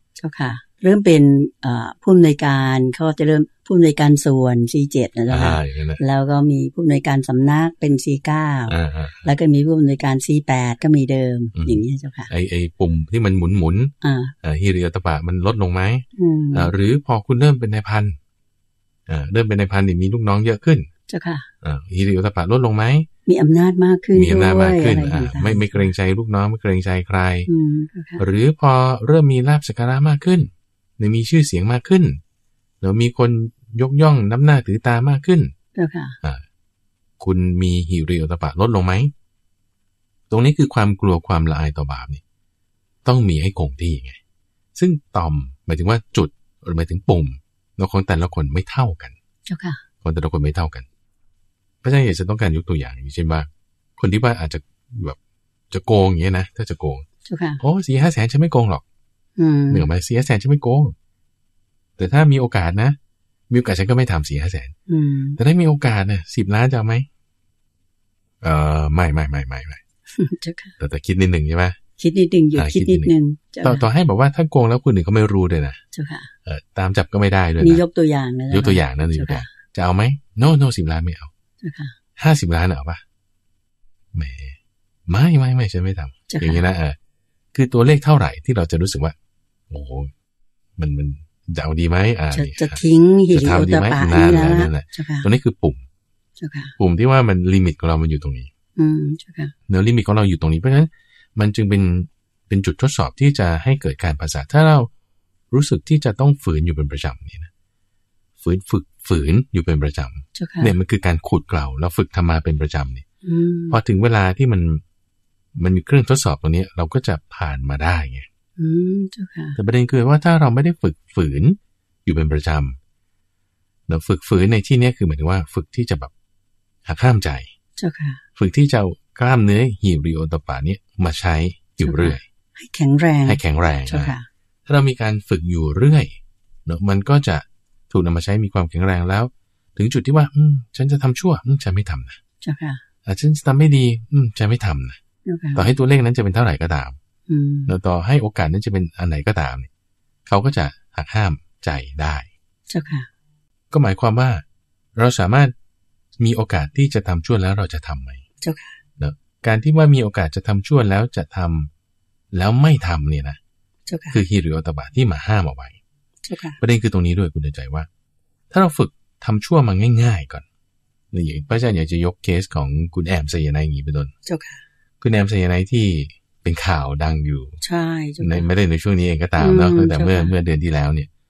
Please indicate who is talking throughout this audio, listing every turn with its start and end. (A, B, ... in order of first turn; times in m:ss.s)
0:00.2-0:12.3 A
0:05.3-0:06.0 B
0:08.7-0:09.3 B
0:11.6-0:18.2 B
0:14.0-0:14.3 A
0:16.2-0:16.7 A
0:19.1-0:20.9 B
0:21.1-0:21.5 A
0:21.6-0:23.1 B
0:23.3-0:25.9 A
0:24.1-0:27.5 B
0:27.5-0:28.2 A
0:28.2-0:32.2 B
0:32.8-0:35.5 B
0:35.8-0:36.2 A
0:37.2-0:39.1 B
0:40.3-0:42.2 B
0:43.0-0:44.2 B
0:44.8-0:49.2 B
0:49.5-0:49.8 A
0:50.0-0:50.9 B
0:51.8-0:55.2 B
0:55.7-0:57.0 B
0:57.2-0:57.6 A
0:57.6-0:58.8 B
0:59.4-0:59.9 A
0:59.7-1:01.0 B
1:02.0-1:03.0 B
1:03.5-1:04.7 B
1:04.9-1:05.4 A
1:05.4-1:07.1 B
1:08.4-1:09.8 B
1:10.1-1:10.8 A
1:10.8-1:11.8 B
1:12.0-1:13.9 A
1:12.6-1:13.1 B
1:13.6-1:15.8 B
1:15.9-1:16.3 A
1:16.5-1:17.8 B
1:17.6-1:19.5 A
1:18.5-1:21.3 B
1:21.6-1:22.0 A
1:22.2-1:23.0 B
1:24.1-1:24.6 B
1:25.1-1:27.0 B
1:26.3-1:26.6 A
1:27.5-1:29.2 B
1:29.7-1:30.1 B
1:30.8-1:35.8 B
1:32.3-1:35.3 A
1:36.4-1:36.8 A
1:36.8-1:38.5 B
1:38.8-1:39.5 A
1:39.7-1:44.9 B
1:45.5-1:47.5 B
1:48.4-1:53.0 B
1:50.4-1:50.7 A
1:53.2-1:53.8 A
1:53.7-1:54.8 B
1:55.6-1:58.3 B
1:58.6-1:59.6 A
1:59.6-2:02.8 B
2:03.9-2:06.1 B
2:06.8-2:07.5 B
2:07.8-2:08.2 A
2:08.4-2:12.2 B
2:11.8-2:14.3 A
2:13.3-2:14.1 B
2:14.7-2:16.2 B
2:16.7-2:22.2 B
2:22.4-2:22.8 A
2:23.0-2:25.0 B
2:25.2-2:25.7 A
2:25.6-2:27.0 B
2:27.3-2:27.7 A
2:27.7-2:29.7 B
2:30.3-2:32.3 B
2:32.7-2:33.1 A
2:33.7-2:34.4 B
2:35.0-2:35.5 B
2:36.2-2:38.2 B
2:38.4-2:38.8 A
2:39.0-2:41.7 B
2:42.3-2:43.4 B
2:43.9-2:44.2 A
2:44.1-2:45.8 B
2:46.2-2:46.6 A
2:46.6-2:47.9 B
2:48.5-2:50.4 B
2:51.1-2:54.1 B
2:54.3-2:54.6 A
2:55.0-2:57.6 B
2:57.6-2:58.5 A
2:58.2-3:01.1 B
2:59.4-3:00.3 A